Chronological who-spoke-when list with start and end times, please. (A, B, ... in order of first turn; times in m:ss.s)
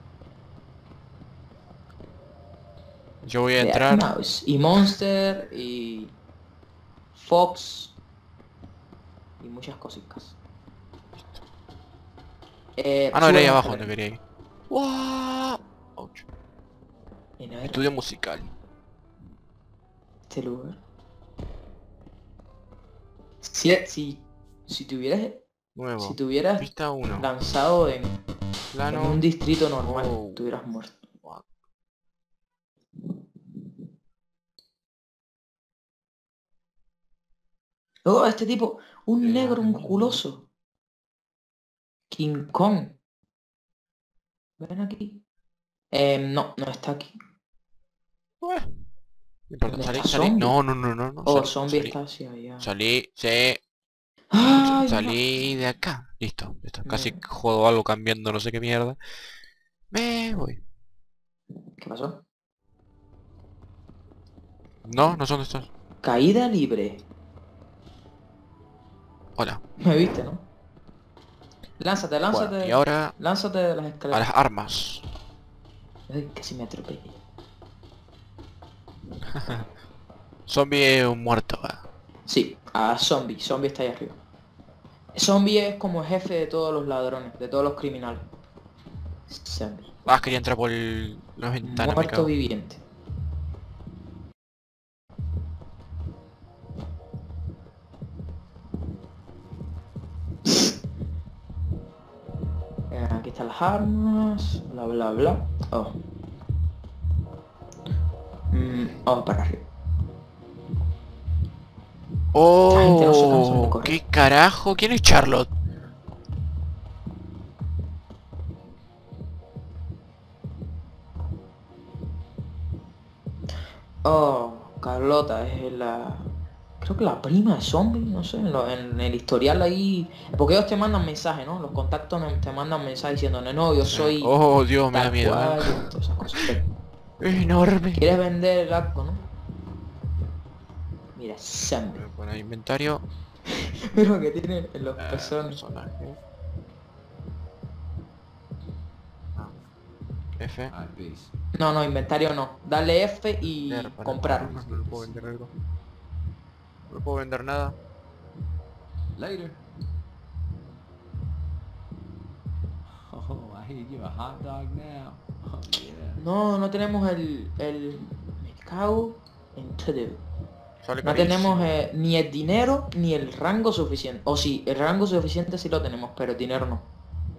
0:03.2-0:04.1 A
0:03.6-0:06.1 B
0:07.1-0:07.9 B
0:09.4-0:10.3 B
0:11.1-0:11.4 A
0:12.8-0:13.9 B
0:13.1-0:16.2 A
0:17.4-0:17.8 B
0:17.6-0:18.5 A
0:20.3-0:20.8 B
0:23.4-0:25.4 B
0:25.7-0:27.3 A
0:26.0-0:28.2 B
0:28.7-0:29.2 A
0:28.9-0:31.0 B
0:29.8-0:30.4 A
0:38.0-0:40.4 B
0:39.2-0:40.2 A
0:42.1-0:43.0 B
0:44.6-0:45.2 B
0:45.9-0:47.2 B
0:48.4-0:48.7 A
0:49.5-0:52.0 A
0:49.7-0:50.6 B
0:51.2-0:52.7 B
0:52.6-0:53.6 A
0:54.3-0:55.2 B
0:54.4-0:59.0 A
0:56.8-0:57.2 B
0:59.9-1:00.6 A
1:01.8-1:02.2 B
1:04.8-1:05.7 A
1:06.0-1:07.0 B
1:09.4-1:09.6 A
1:09.8-1:10.4 B
1:11.8-1:14.2 B
1:12.3-1:13.1 A
1:14.1-1:15.0 A
1:16.1-1:17.2 B
1:19.2-1:19.7 A
1:20.5-1:21.8 A
1:22.2-1:24.2 B
1:25.1-1:28.3 B
1:29.3-1:29.9 B
1:30.0-1:32.3 A
1:31.6-1:32.8 B
1:42.9-1:45.9 B
1:48.5-1:49.6 B
1:52.3-1:55.5 A
1:52.7-1:54.0 B
2:04.0-2:06.3 B
2:06.8-2:14.3 B
2:13.8-2:15.9 A
2:14.9-2:16.6 B
2:17.2-2:18.1 A
2:17.9-2:19.2 B
2:21.1-2:22.0 B
2:21.9-2:23.0 A
2:23.9-2:25.6 B
2:25.0-2:26.2 A
2:30.4-2:30.7 A
2:30.7-2:31.3 C
2:31.5-2:34.5 B
2:33.7-2:35.5 A
2:34.3-2:35.4 C
2:36.9-2:37.8 A
2:39.2-2:39.6 C
2:43.1-2:46.2 C
2:46.2-2:50.2 B
2:50.8-2:51.7 A
2:51.0-2:56.8 B